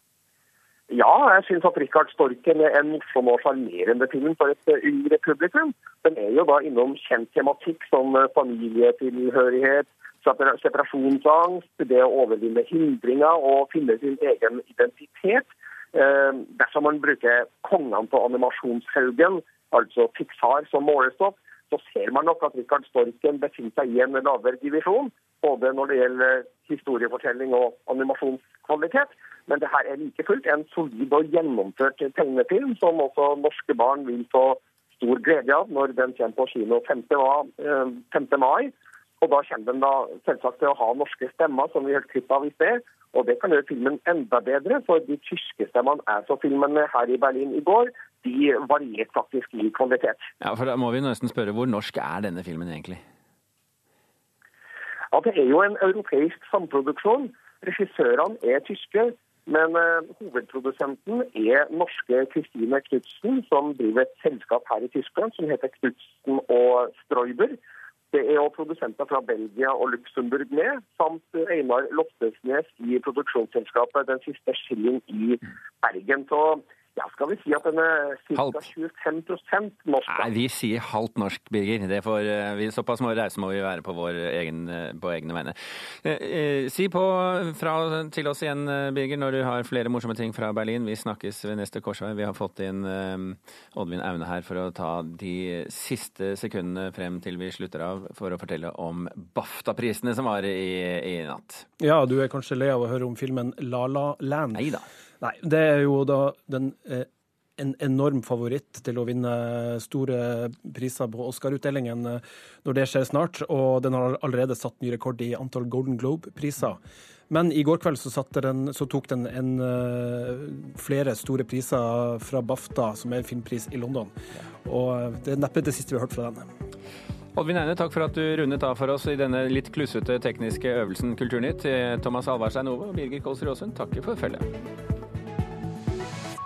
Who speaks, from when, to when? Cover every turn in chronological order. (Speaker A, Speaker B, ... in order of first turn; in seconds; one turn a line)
Speaker A: 0.9-50.2
Speaker B: 50.4-53.0
Speaker A: 55.1-67.6
Speaker A: 68.1-80.3
Speaker B: 78.3-78.6
Speaker B: 80.1-101.7
Speaker C: 101.8-104.6
Speaker B: 104.5-104.8
Speaker C: 105.2-116.8
Speaker C: 117.3-124.1
Speaker C: 124.6-126.4
Speaker B: 127.3-134.4